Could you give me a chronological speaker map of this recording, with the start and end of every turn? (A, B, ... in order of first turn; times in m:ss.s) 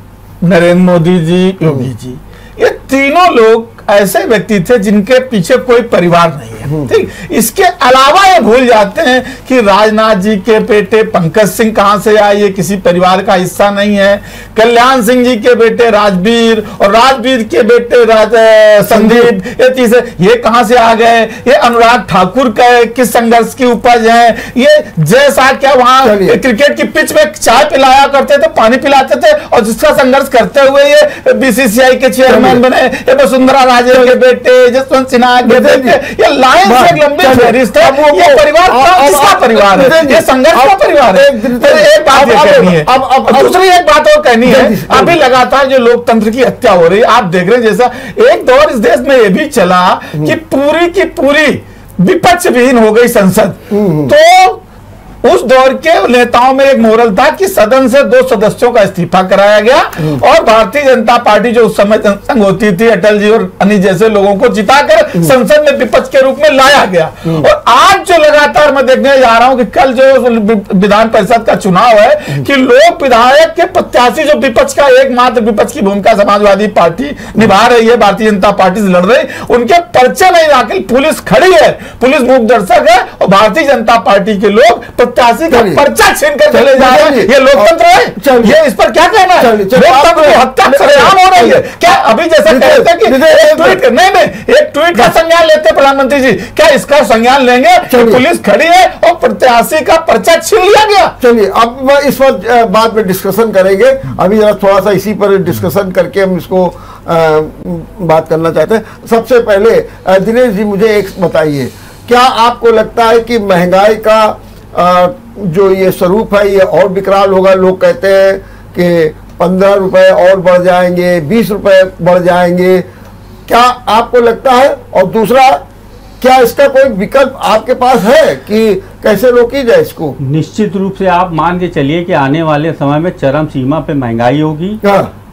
0:00.4-0:54.6 A
0:18.9-0:19.3 B
0:26.0-0:26.4 B
0:32.3-0:32.6 B
0:35.4-0:36.0 B
0:36.6-0:43.5 B
0:44.4-0:45.2 B
0:53.7-0:54.1 B
0:55.2-1:41.2 A
1:25.5-1:25.8 B
1:26.5-1:28.6 B
1:29.4-1:31.6 B
1:32.5-1:33.8 B
1:37.9-1:38.2 B
1:41.2-2:02.9 B
2:03.5-2:05.6 B
2:06.2-2:10.2 B
2:10.2-2:14.8 C
2:14.8-2:15.1 B